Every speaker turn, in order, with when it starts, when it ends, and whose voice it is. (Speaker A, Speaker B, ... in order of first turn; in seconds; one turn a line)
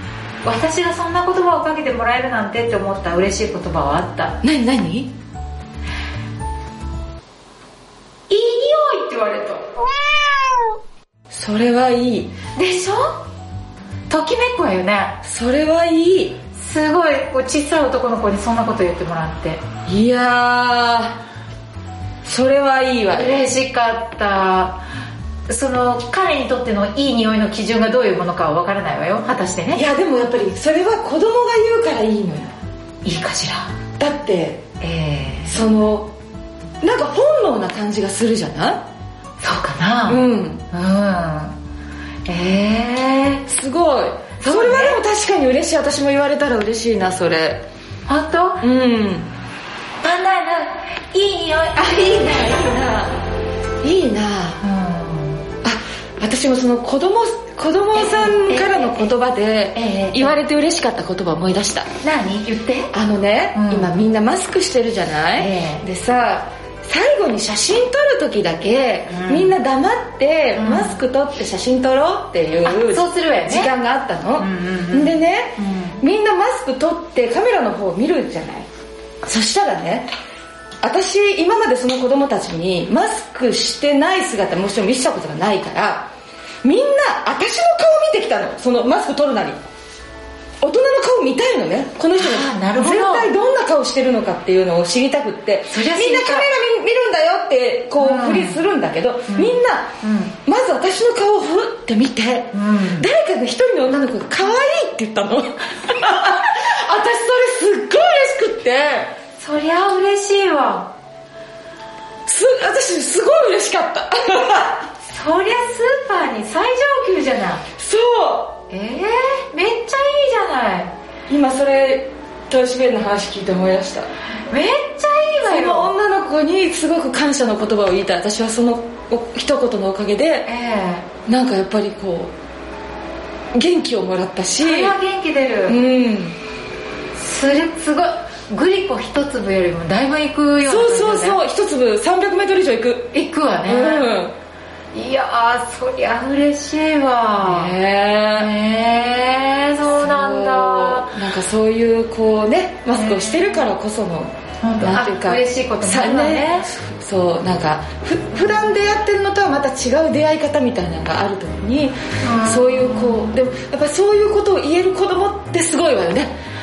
Speaker A: 0.4-4.4
Speaker B: 4.4-5.1
Speaker A: 8.3-9.7
Speaker B: 11.3-12.3
Speaker A: 12.6-13.2
Speaker A: 14.1-15.2
Speaker B: 15.2-16.4
Speaker A: 16.5-19.6
Speaker B: 19.9-21.2
Speaker B: 22.2-23.3
Speaker A: 23.1-24.8
Speaker A: 25.5-29.8
Speaker B: 29.7-32.5
Speaker A: 33.0-33.7
Speaker B: 34.0-34.6
Speaker A: 34.8-35.6
Speaker B: 35.5-36.1
Speaker B: 36.8-38.8
Speaker A: 39.4-41.6
Speaker B: 40.1-40.6
Speaker A: 42.3-43.4
Speaker B: 43.5-47.6
Speaker A: 44.4-45.0
Speaker A: 48.1-48.6
Speaker B: 48.6-49.3
Speaker A: 50.0-53.0
Speaker B: 52.2-53.2
Speaker B: 53.8-54.6
Speaker A: 54.6-55.4
Speaker B: 55.6-61.9
Speaker A: 57.9-59.1
Speaker A: 59.7-60.4
Speaker A: 62.0-62.9
Speaker B: 62.9-78.7
Speaker A: 63.5-63.9
Speaker A: 65.3-65.8
Speaker A: 69.1-69.5
Speaker A: 70.5-71.0
Speaker A: 72.6-73.7
Speaker A: 74.4-76.0
Speaker B: 79.2-80.1
Speaker B: 80.8-86.1
Speaker B: 86.6-89.6
Speaker B: 90.6-99.9
Speaker A: 92.2-93.3
Speaker A: 95.7-96.5
Speaker A: 98.0-98.6
Speaker A: 99.3-100.3
Speaker B: 100.4-109.1
Speaker A: 102.5-103.1
Speaker A: 109.4-110.9
Speaker B: 112.3-114.8
Speaker A: 115.0-117.6
Speaker B: 117.8-118.6
Speaker A: 118.7-120.9
Speaker B: 121.3-124.1
Speaker A: 124.5-125.9
Speaker B: 125.4-130.5
Speaker A: 130.4-131.1
Speaker B: 131.2-132.3
Speaker B: 133.5-134.9
Speaker A: 134.6-135.8
Speaker B: 135.7-136.4
Speaker A: 137.2-141.4
Speaker B: 140.6-143.1
Speaker A: 143.1-144.2
Speaker B: 143.7-144.3
Speaker A: 144.9-147.8
Speaker B: 147.4-148.5
Speaker A: 148.3-151.2
Speaker B: 149.9-166.3
Speaker A: 152.9-153.6
Speaker A: 154.6-156.7
Speaker A: 162.2-163.3